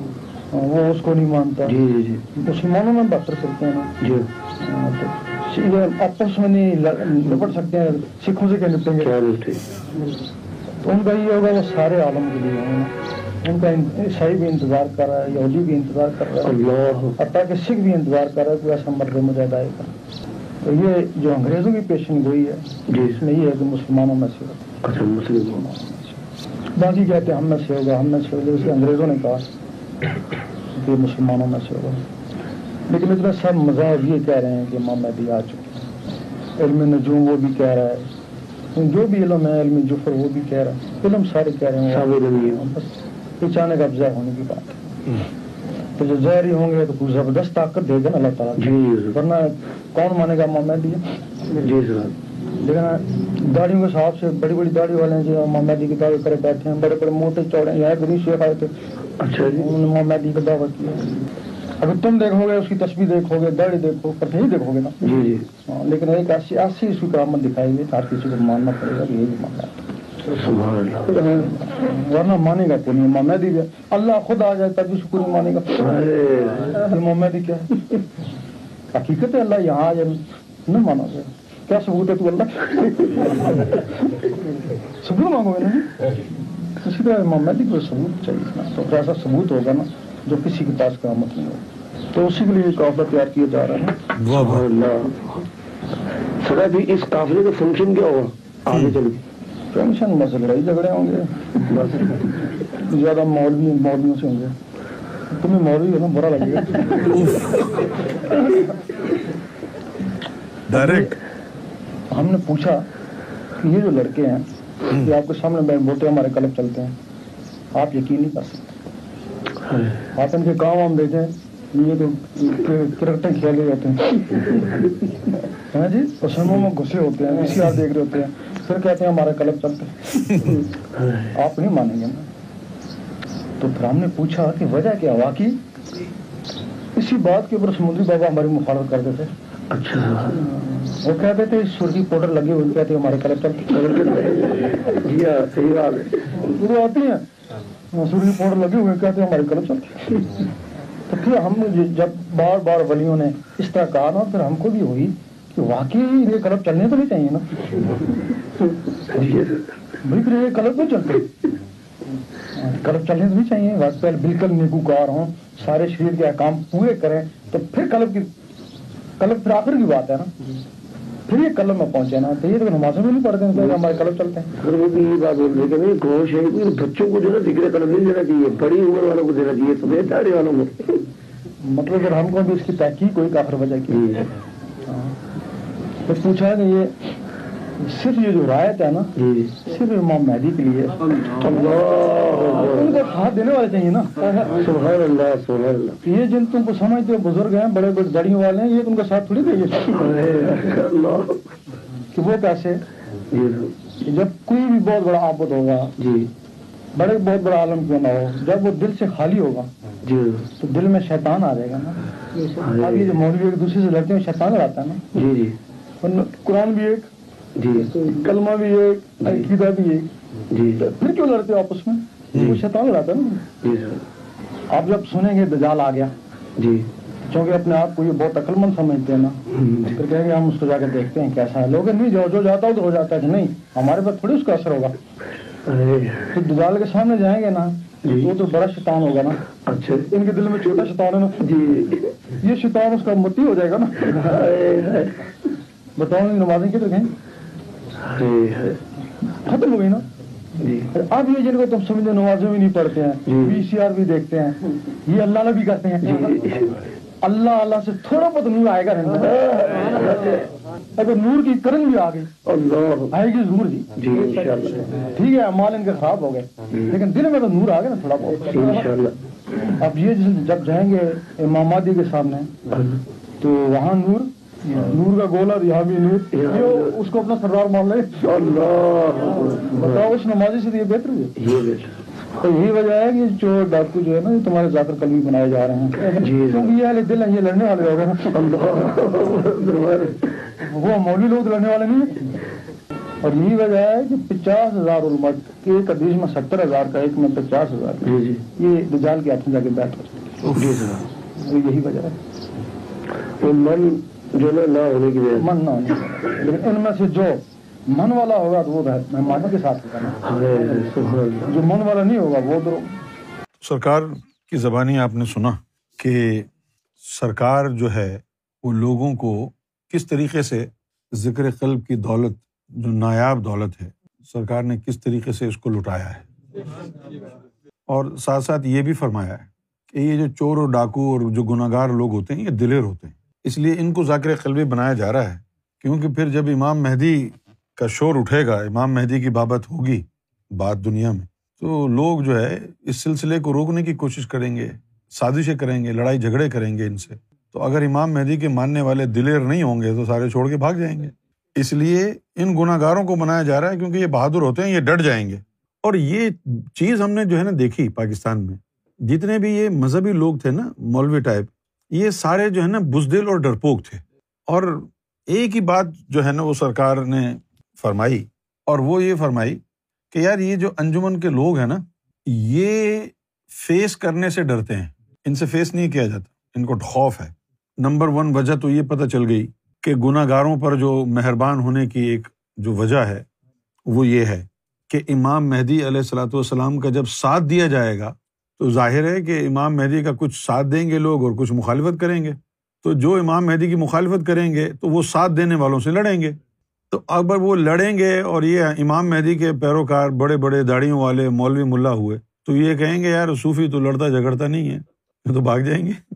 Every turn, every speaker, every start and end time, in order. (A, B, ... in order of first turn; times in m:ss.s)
0:00.5-0:01.8 A
0:01.6-0:02.3 B
0:02.3-0:03.9 A
0:04.0-0:04.3 B
0:04.6-0:09.2 A
0:09.0-0:09.6 B
0:10.8-0:12.9 A
0:13.4-0:16.6 A
0:16.4-0:17.2 B
0:17.2-0:19.9 A
0:20.6-0:26.2 A
0:22.9-0:23.2 B
0:24.8-0:25.6 B
0:26.7-0:29.5 A
0:30.7-0:32.0 A
0:32.9-0:35.8 A
0:36.6-0:38.1 A
0:38.7-0:44.7 A
0:41.9-0:42.6 B
0:46.0-0:51.0 A
0:48.6-0:49.1 B
0:51.5-0:52.1 B
0:52.6-0:58.7 A
0:59.2-0:59.7 B
0:59.6-1:01.1 A
1:01.8-1:05.0 A
1:05.0-1:05.4 B
1:05.6-1:09.9 A
1:10.2-1:11.5 B
1:11.3-1:16.0 A
1:15.8-1:16.8 B
1:16.7-1:18.0 A
1:18.9-1:24.2 A
1:24.8-1:34.0 A
1:34.1-1:34.6 C
1:34.3-1:35.4 B
1:36.4-1:39.2 B
1:38.7-1:39.0 C
1:39.7-1:42.0 A
1:41.6-1:42.4 B
1:42.6-1:44.5 A
1:45.3-1:47.2 A
1:47.0-1:47.7 C
1:48.4-1:48.7 A
1:50.7-1:51.1 C
1:50.7-1:51.1 A
1:52.1-1:52.8 A
1:53.6-1:54.5 A
1:55.0-1:57.0 A
1:57.7-1:58.7 A
1:59.6-2:00.1 B
2:00.1-2:04.8 A
2:05.5-2:10.2 A
2:10.2-2:10.6 C
2:10.9-2:11.4 B
2:11.3-2:12.3 A
2:13.6-2:15.6 A
2:17.0-2:19.3 A
2:19.7-2:20.4 B
2:20.3-2:24.1 A
2:23.7-2:26.4 B
2:26.4-2:27.2 A
2:27.9-2:30.2 A
2:31.1-2:38.1 A
2:39.1-2:39.6 B
2:40.0-2:41.3 A
2:42.5-2:48.3 A
2:49.2-2:50.5 A
2:51.3-2:54.5 A
2:54.6-3:01.0 B
3:01.6-3:04.2 A
3:03.9-3:04.3 B
3:04.8-3:05.2 A
3:06.0-3:06.9 A
3:07.8-3:11.8 A
3:09.2-3:09.6 B
3:11.3-3:12.9 B
3:12.3-3:14.6 A
3:14.6-3:16.0 B
3:16.0-3:20.0 A
3:19.9-3:21.4 B
3:22.1-3:22.8 A
3:23.3-3:23.7 B
3:24.0-3:25.9 A
3:26.0-3:26.3 B
3:26.9-3:29.7 A
3:30.0-3:30.5 B
3:30.6-3:35.0 A
3:32.6-3:33.2 B
3:35.1-3:35.6 B
3:36.0-3:37.1 A
3:37.6-3:38.1 B
3:37.7-3:40.1 A
3:40.5-3:40.8 B
3:40.8-3:43.4 A
3:42.3-3:42.6 C
3:43.6-3:44.0 B
3:44.7-3:46.1 A
3:46.6-3:46.9 B
3:47.3-3:49.4 A
3:49.5-3:50.0 B
3:49.9-3:55.0 A
3:55.6-3:56.4 B
3:56.3-3:59.4 A
3:58.0-3:58.3 B
3:59.5-4:00.1 B
4:00.1-4:01.5 A
4:01.4-4:02.1 B
4:02.4-4:04.2 A
4:04.0-4:05.3 B
4:06.0-4:07.1 A
4:08.0-4:08.8 B
4:09.2-4:10.0 A
4:10.6-4:10.9 B
4:10.9-4:16.4 A
4:13.3-4:13.6 B
4:16.0-4:16.8 B
4:17.2-4:19.4 A
4:19.1-4:20.5 B
4:21.0-4:22.3 A
4:22.4-4:23.1 B
4:23.1-4:23.9 A
4:23.9-4:25.0 B
4:25.0-4:28.9 A
4:28.5-4:29.2 B
4:29.6-4:32.5 A
4:32.7-4:33.0 B
4:33.4-4:38.2 A
4:36.3-4:37.0 B
4:38.2-4:40.1 B
4:39.7-4:41.3 A
4:41.4-4:42.0 B
4:42.3-4:48.4 A
4:46.1-4:46.7 B
4:48.3-4:50.4 B
4:50.6-4:52.3 A
4:53.2-5:00.2 A
4:58.0-4:58.4 B
5:00.4-5:01.0 C
5:00.6-5:01.0 B
5:01.2-5:02.2 A
5:03.4-5:05.5 B
5:05.4-5:10.9 A
5:10.2-5:11.5 B
5:11.4-5:13.0 A
5:13.6-5:16.5 C
5:17.0-5:26.3 C
5:27.9-6:23.2 C
6:23.9-6:36.4 C
6:36.9-6:46.0 C